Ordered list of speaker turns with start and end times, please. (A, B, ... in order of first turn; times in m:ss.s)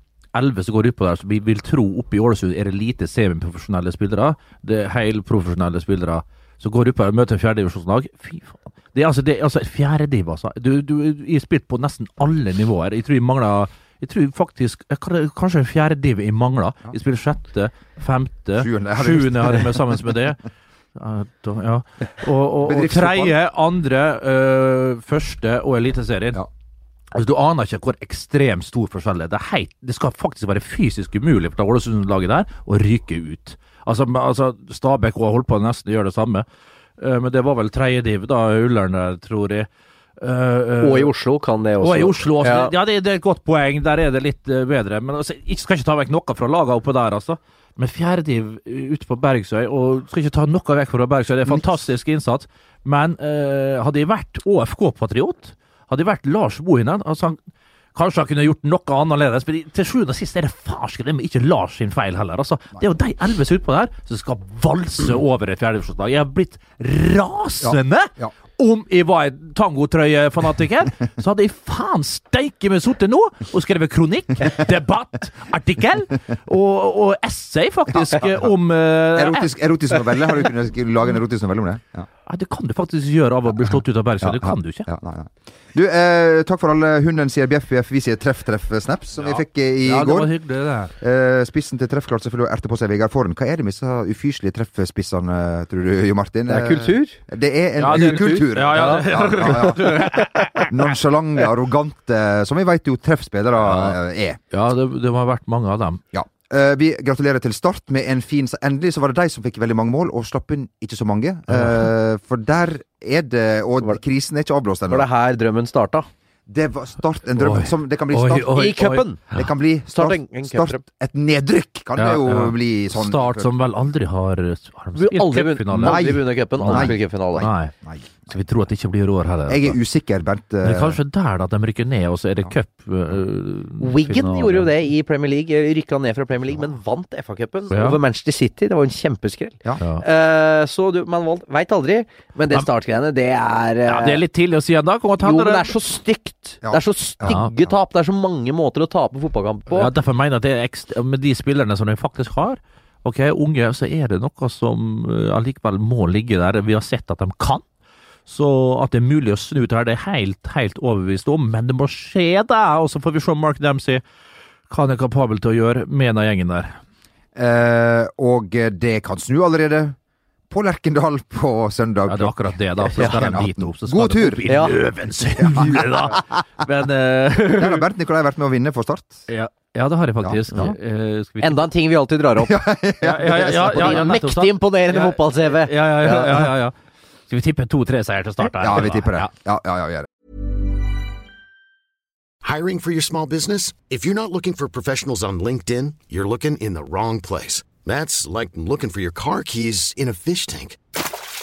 0:00.3-0:20.4 A
0:18.6-0:20.0 B
0:21.0-0:26.4 A
0:22.6-0:23.4 B
0:27.1-0:36.5 A
0:37.0-0:39.7 A
0:40.2-0:41.1 A
0:40.8-0:42.7 C
0:41.8-0:57.4 A
0:58.0-1:19.5 A
1:07.6-1:08.3 B
1:19.1-1:22.1 B
1:22.3-1:24.9 A
1:24.2-1:30.3 B
1:29.2-1:30.9 A
1:31.0-1:44.4 B
1:36.5-1:37.2 C
1:37.8-1:40.8 A
1:37.9-1:39.1 C
1:43.6-1:44.0 A
1:44.5-1:46.0 A
1:46.1-1:55.1 B
1:51.5-1:51.9 A
1:54.9-1:56.1 C
1:56.5-1:58.7 B
1:57.4-1:59.5 A
1:58.5-1:59.2 C
1:59.3-2:03.5 B
1:59.9-2:00.8 C
2:02.0-2:07.7 A
2:05.0-2:07.5 C
2:05.8-2:08.3 B
2:08.3-2:09.8 A
2:09.5-2:11.0 B
2:10.6-2:14.7 A
2:13.8-2:24.2 C
2:17.7-2:18.0 A
2:23.9-2:25.7 A
2:25.2-2:29.9 C
2:26.6-2:27.5 B
2:29.7-2:37.6 A
2:38.3-2:44.0 A
2:44.7-2:46.8 A
2:47.4-2:50.0 B
2:50.5-2:54.5 B
2:52.1-2:57.9 A
2:54.5-2:54.8 C
2:55.4-2:56.2 B
2:57.5-2:59.3 B
2:59.3-3:01.7 A
3:00.2-3:00.7 B
3:01.4-3:02.6 C
3:02.4-3:04.1 B
3:03.0-3:06.7 A
3:03.2-3:06.5 C
3:07.3-3:09.3 A
3:08.6-3:10.1 B
3:12.4-3:20.8 D